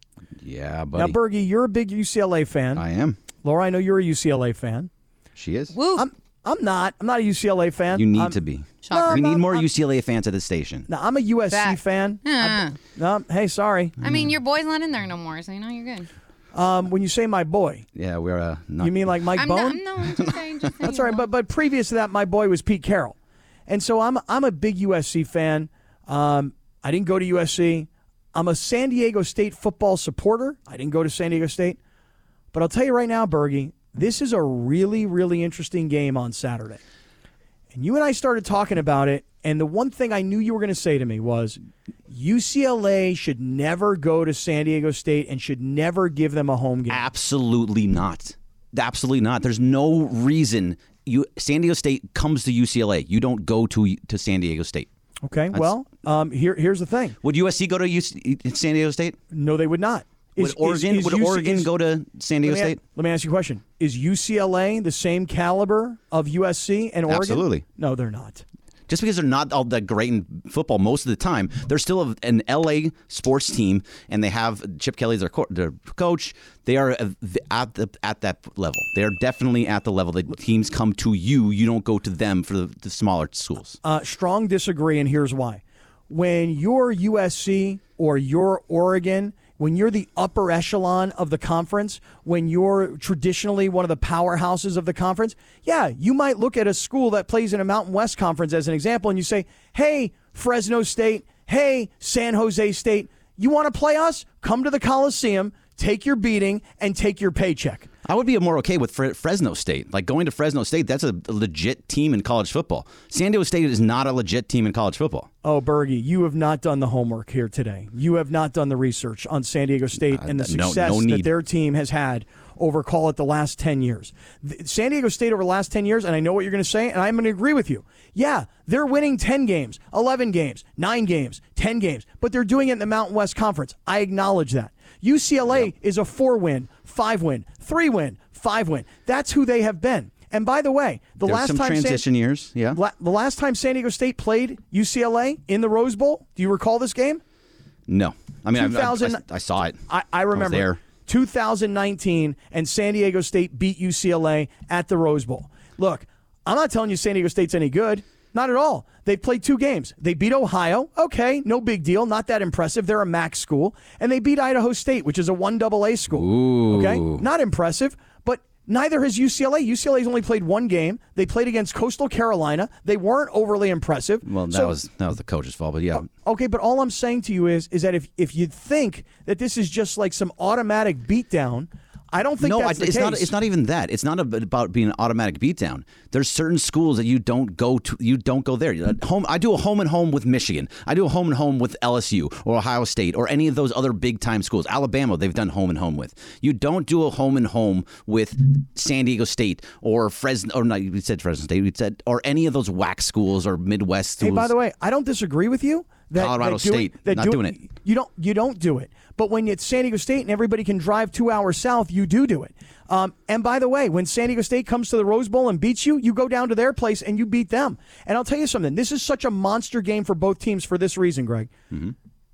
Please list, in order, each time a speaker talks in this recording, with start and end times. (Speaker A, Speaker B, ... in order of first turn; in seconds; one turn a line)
Speaker A: 0.4-1.1
Speaker B: 0.9-2.8
Speaker A: 2.7-3.2
Speaker B: 3.4-4.9
Speaker A: 5.3-5.8
Speaker C: 5.7-6.1
Speaker B: 5.9-8.3
Speaker A: 7.9-10.9
Speaker C: 8.8-9.7
Speaker B: 8.9-9.4
Speaker B: 10.9-14.0
Speaker C: 11.5-12.8
Speaker C: 14.0-16.1
Speaker A: 14.0-14.3
Speaker B: 16.5-17.8
Speaker A: 17.9-19.0
Speaker B: 18.8-19.8
Speaker C: 19.4-21.2
Speaker A: 20.0-20.8
Speaker B: 20.8-23.1
Speaker B: 23.7-31.8
Speaker B: 32.5-36.8
Speaker B: 37.7-47.0
Speaker A: 46.9-54.9
Speaker B: 55.2-57.1
Speaker A: 57.2-59.2
Speaker B: 59.3-61.7
Speaker A: 60.4-62.8
Speaker B: 62.4-68.4
Speaker A: 67.1-67.6
Speaker A: 68.9-83.8
Speaker B: 83.8-107.9
Speaker A: 108.0-115.3
Speaker B: 115.4-142.0
Speaker A: 120.1-121.3
Speaker A: 141.2-142.8
Speaker B: 142.7-147.2
Speaker A: 147.9-149.8
Speaker B: 148.5-149.2
Speaker B: 149.9-174.8
Speaker A: 150.3-150.8
Speaker A: 166.1-167.2
Speaker A: 174.2-176.1
Speaker B: 175.9-183.3
Speaker A: 182.4-204.5
Speaker B: 204.2-221.5
Speaker A: 206.1-207.6